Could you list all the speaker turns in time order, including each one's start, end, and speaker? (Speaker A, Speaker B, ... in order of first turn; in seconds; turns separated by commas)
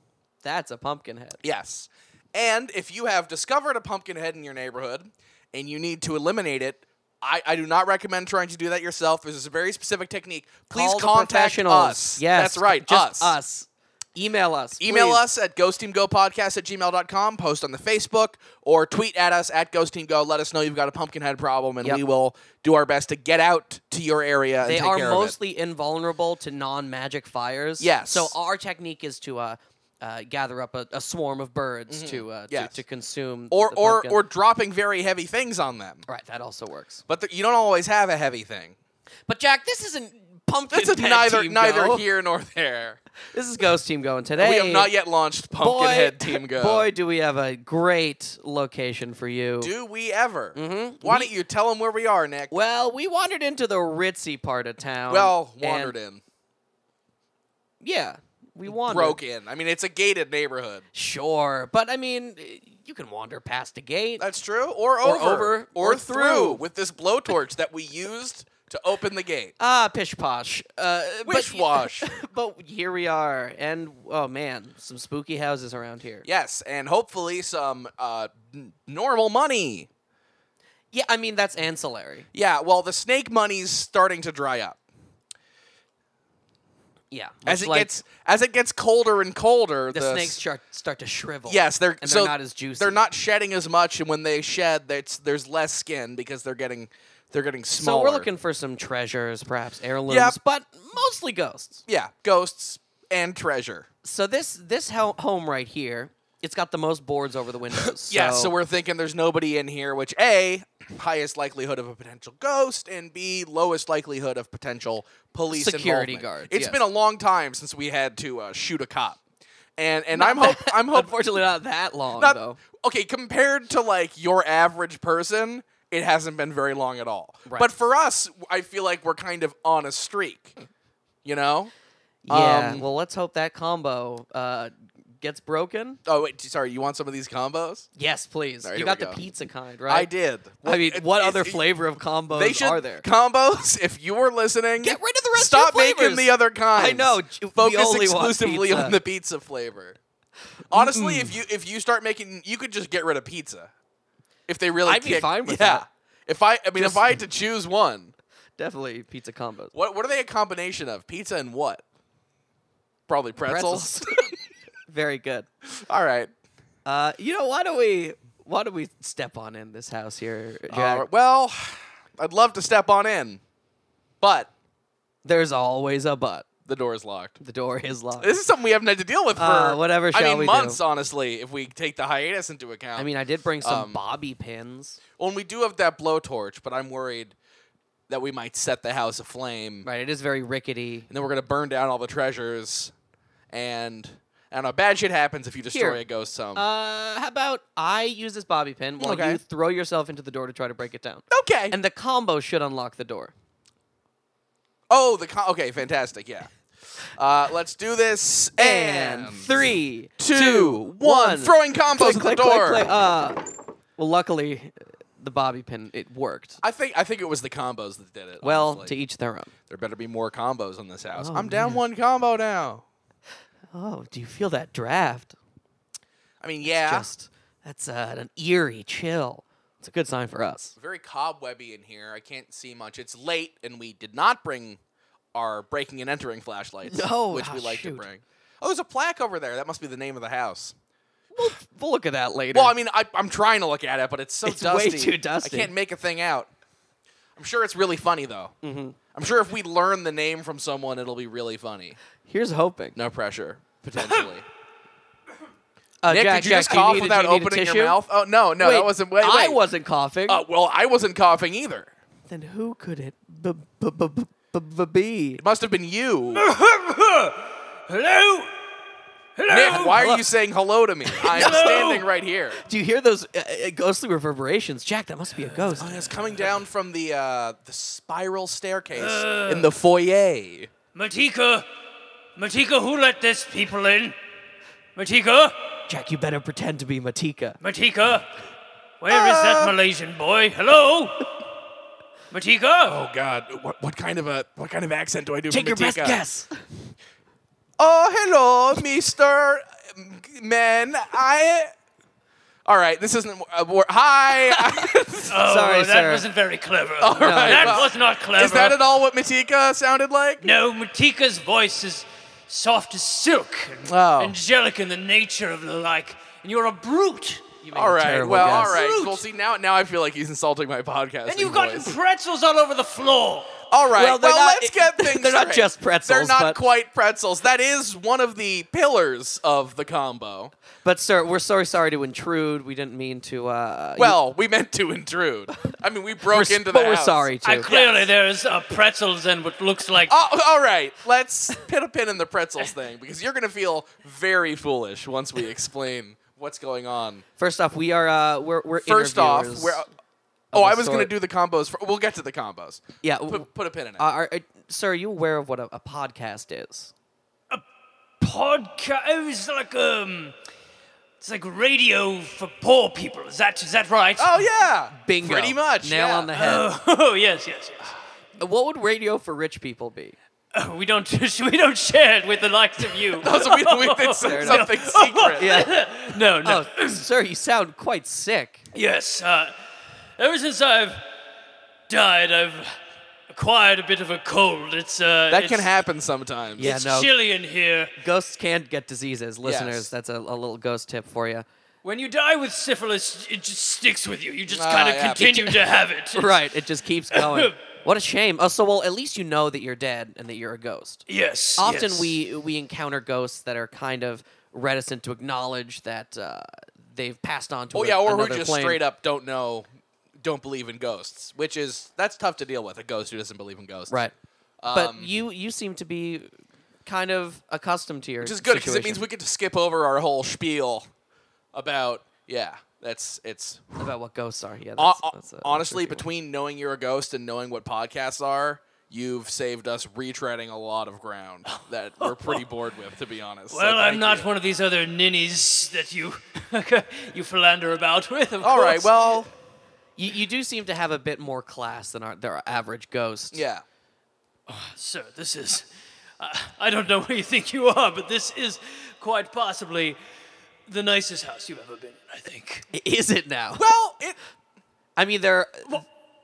Speaker A: 0.4-1.4, Speaker B: 1.4-13.4, Speaker A: 10.7-15.2, Speaker B: 14.8-25.3, Speaker A: 24.6-34.2, Speaker B: 27.8-28.3, Speaker B: 31.9-32.8, Speaker B: 33.5-36.0, Speaker A: 36.1-37.0, Speaker B: 37.1-38.8, Speaker A: 39.3-42.0, Speaker B: 40.7-43.0, Speaker A: 43.3-44.9, Speaker B: 44.4-46.9, Speaker A: 45.6-49.7, Speaker B: 49.6-52.5, Speaker A: 50.5-51.3, Speaker A: 52.5-55.9, Speaker B: 55.1-56.2, Speaker A: 57.8-59.2, Speaker B: 58.6-60.8, Speaker A: 60.9-64.3, Speaker B: 64.2-69.5, Speaker A: 65.0-66.6, Speaker A: 69.6-76.2, Speaker B: 71.2-72.2, Speaker B: 76.2-79.9, Speaker A: 80.9-82.3, Speaker B: 82.3-84.8, Speaker A: 87.1-87.9, Speaker B: 87.5-90.4, Speaker A: 89.9-93.0, Speaker B: 91.5-98.3, Speaker A: 97.7-101.8, Speaker B: 100.1-100.4, Speaker B: 101.9-103.9, Speaker A: 104.0-108.5, Speaker B: 107.8-119.2, Speaker A: 115.5-116.8, Speaker B: 119.8-121.1, Speaker A: 120.1-122.6, Speaker B: 122.2-130.6, Speaker B: 131.2-131.7, Speaker A: 132.2-136.0, Speaker B: 132.3-132.8, Speaker B: 136.1-137.9, Speaker A: 138.0-140.1, Speaker B: 138.6-139.2, Speaker B: 139.9-141.6, Speaker A: 140.6-143.0, Speaker B: 142.3-150.0, Speaker A: 144.8-149.0, Speaker A: 150.7-151.3, Speaker B: 150.7-153.7, Speaker B: 154.5-158.1, Speaker A: 154.8-155.8, Speaker A: 156.7-157.2, Speaker A: 158.6-159.7, Speaker B: 159.7-161.8, Speaker B: 163.1-164.3, Speaker A: 163.4-164.3, Speaker A: 164.9-165.4, Speaker B: 165.7-166.3, Speaker A: 166.8-171.1, Speaker B: 170.7-173.4, Speaker B: 174.2-174.5, Speaker A: 175.2-176.5, Speaker B: 176.6-177.4, Speaker A: 177.4-178.3, Speaker B: 178.2-183.1, Speaker A: 179.4-180.8, Speaker A: 182.9-185.0, Speaker B: 183.6-184.0, Speaker B: 185.2-187.3, Speaker B: 188.1-189.8, Speaker A: 189.8-191.1, Speaker B: 191.1-192.9, Speaker B: 193.5-196.6, Speaker A: 195.7-196.0, Speaker A: 196.5-203.3, Speaker B: 199.0-199.4, Speaker B: 201.3-201.8, Speaker B: 204.9-206.5, Speaker B: 207.2-209.6, Speaker A: 208.6-213.4, Speaker B: 210.2-212.9, Speaker A: 214.0-216.6, Speaker B: 216.6-218.9, Speaker A: 218.4-219.5, Speaker B: 219.7-222.8, Speaker A: 221.1-221.8, Speaker A: 223.7-225.3, Speaker B: 226.4-227.1, Speaker A: 226.7-230.8, Speaker B: 230.8-234.8, Speaker B: 235.3-240.7, Speaker A: 236.8-238.1, Speaker A: 241.3-242.7, Speaker B: 242.5-246.5, Speaker A: 244.4-245.7, Speaker B: 247.3-248.5, Speaker A: 248.6-249.0, Speaker B: 249.1-252.0, Speaker A: 252.2-253.0, Speaker B: 252.9-254.4, Speaker A: 256.0-258.0, Speaker B: 256.1-259.6, Speaker A: 258.6-260.4, Speaker B: 260.3-261.9, Speaker A: 262.3-265.4, Speaker B: 265.4-266.5, Speaker C: 266.3-268.5, Speaker C: 269.4-270.0, Speaker B: 269.5-272.6, Speaker A: 269.8-270.2, Speaker A: 271.1-271.9, Speaker C: 271.2-272.1, Speaker A: 272.6-276.1, Speaker C: 275.4-276.4, Speaker B: 275.8-280.7, Speaker C: 278.9-279.7, Speaker C: 280.9-281.7, Speaker C: 282.4-284.2, Speaker C: 284.9-285.6, Speaker A: 285.9-287.6, Speaker C: 287.6-288.3, Speaker C: 289.0-291.3, Speaker B: 289.1-289.7, Speaker C: 292.3-293.0, Speaker B: 292.9-296.2, Speaker A: 295.5-296.6, Speaker B: 297.8-301.7, Speaker B: 302.6-305.4, Speaker C: 305.3-308.8, Speaker A: 305.4-306.2, Speaker B: 307.0-310.5, Speaker A: 307.2-307.9, Speaker C: 310.4-317.6, Speaker B: 313.9-314.4, Speaker A: 317.6-318.8, Speaker B: 317.7-321.9, Speaker C: 318.2-319.2, Speaker C: 321.3-323.5, Speaker B: 323.7-330.5, Speaker A: 323.9-326.6, Speaker A: 330.8-334.2, Speaker B: 334.0-338.1, Speaker A: 336.3-337.7, Speaker C: 337.4-340.1, Speaker B: 340.1-347.2, Speaker A: 347.4-349.8, Speaker B: 348.8-349.9, Speaker A: 350.5-351.1, Speaker B: 350.5-354.0, Speaker A: 353.0-356.9, Speaker C: 358.2-360.3, Speaker C: 361.2-364.4, Speaker B: 364.2-366.3, Speaker A: 364.9-366.7, Speaker C: 366.3-367.9, Speaker A: 368.4-370.1, Speaker C: 370.5-377.0, Speaker B: 373.2-375.6, Speaker A: 374.2-374.7, Speaker A: 375.4-378.6, Speaker C: 378.7-379.5, Speaker C: 380.2-381.0, Speaker C: 381.9-382.8, Speaker C: 383.3-385.7, Speaker B: 385.3-386.7, Speaker A: 386.6-387.1, Speaker C: 386.6-387.9, Speaker A: 388.0-391.4, Speaker B: 389.4-389.9, Speaker C: 391.8-396.5, Speaker B: 394.5-395.4, Speaker A: 395.1-401.0, Speaker C: 397.1-397.5, Speaker C: 401.1-402.1, Speaker A: 401.6-408.8, Speaker B: 407.7-409.7, Speaker B: 410.2-413.9, Speaker B: 414.6-415.1, Speaker A: 414.7-416.3, Speaker A: 416.8-419.0, Speaker B: 418.2-420.9, Speaker B: 421.5-423.9, Speaker A: 423.8-426.0, Speaker B: 424.8-434.3, Speaker C: 431.5-432.4, Speaker C: 433.5-438.9, Speaker B: 438.4-439.3, Speaker A: 440.0-443.4, Speaker B: 443.3-443.6, Speaker C: 444.5-445.7, Speaker C: 446.2-450.0, Speaker C: 450.7-452.7, Speaker A: 452.7-453.6, Speaker B: 453.6-454.2, Speaker A: 455.0-455.8